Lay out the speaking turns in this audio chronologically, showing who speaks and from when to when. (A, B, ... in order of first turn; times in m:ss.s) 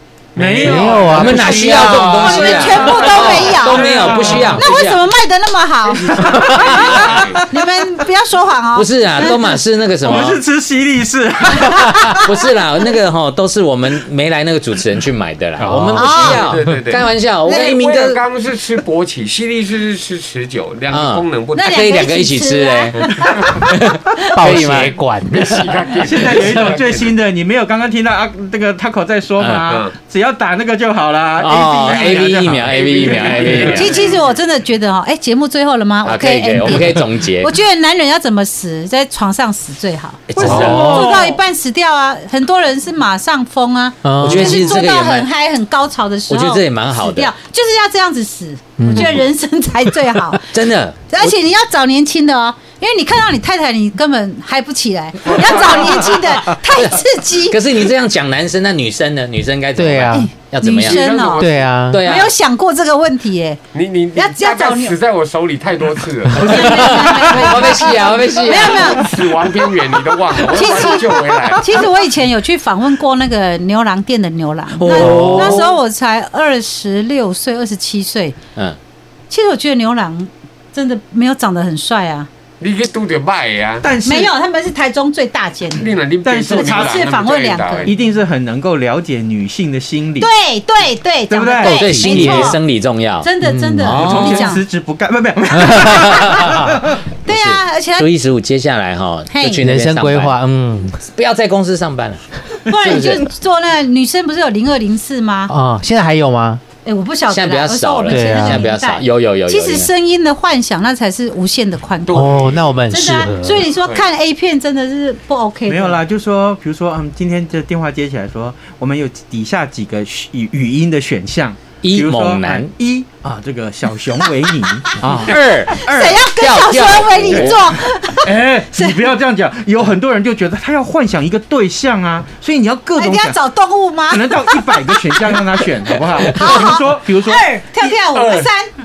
0:00.4-0:02.0 A
0:00.4-0:04.7 B
0:00.6-0:02.2 C
0:01.0-0:05.0 D
0:01.6-0:09.6 E
0:05.8-0:07.4 A
0:06.1-0:07.5 B
0:06.4-0:06.9 D
0:08.8-0:10.4 D
0:10.0-0:12.3 B
0:11.6-0:12.3 E
0:12.2-0:18.2 D
0:15.6-0:16.2 C
0:16.0-0:16.5 E
0:16.1-0:21.9 A
0:17.5-0:17.8 E
0:20.9-0:25.0 D
0:21.5-0:23.4 E
0:23.0-0:23.7 A
0:24.4-0:25.9 C
0:25.3-0:27.1 A
0:26.0-0:34.0 B
0:29.4-0:29.7 D
0:29.7-0:29.9 A
0:31.4-0:33.9 D
0:31.7-0:34.3 A
0:33.7-0:50.5 E
0:36.0-0:37.5 D
0:40.3-0:41.2 D
0:40.4-0:41.0 B
0:40.4-0:41.4 C
0:44.0-0:44.7 C
0:44.2-0:45.3 D
0:46.3-0:47.3 D
0:48.8-0:49.2 C
0:48.9-0:49.2 D
0:50.5-0:51.3 D
0:51.1-0:57.6 E
0:55.2-0:56.2 A
0:56.5-1:01.0 D
0:59.8-1:00.3 C
1:00.1-1:03.6 E
1:00.8-1:01.7 A
1:01.4-1:02.1 C
1:01.9-1:02.3 D
1:03.7-1:07.8 A
1:04.2-1:05.0 E
1:06.4-1:09.1 E
1:06.4-1:09.1 D
1:08.6-1:11.8 A
1:10.5-1:18.4 E
1:14.8-1:15.7 D
1:14.9-1:15.7 C
1:19.3-1:22.3 E
1:22.6-1:23.9 A
1:23.8-1:24.3 B
1:24.0-1:26.0 E
1:25.8-1:27.9 A
1:26.2-1:27.0 B
1:26.5-1:27.9 E
1:27.9-1:30.3 B
1:30.2-1:32.6 E
1:31.3-1:31.8 B
1:31.6-1:33.3 D
1:31.9-1:32.6 C
1:33.2-1:34.6 E
1:33.4-1:34.0 C
1:33.8-1:34.5 D
1:33.9-1:37.0 B
1:35.7-1:36.8 C
1:36.0-1:36.4 E
1:36.2-1:36.7 D
1:37.2-1:40.4 D
1:37.3-1:38.1 E
1:39.3-1:39.6 E
1:39.6-1:41.0 C
1:41.0-1:43.3 D
1:42.7-1:45.5 E
1:45.5-1:46.6 C
1:46.8-1:56.0 E
1:47.3-1:49.9 D
1:48.1-1:48.7 C
1:52.1-1:52.8 A
1:52.1-1:53.7 C
1:53.7-1:54.0 A
1:55.7-2:06.2 B
2:01.8-2:02.7 D
2:05.0-2:07.7 D
2:05.7-2:09.0 E
2:07.2-2:07.6 A
2:08.2-2:13.4 B
2:13.0-2:15.4 E
2:14.1-2:17.5 B
2:16.2-2:18.7 E
2:18.1-2:18.5 A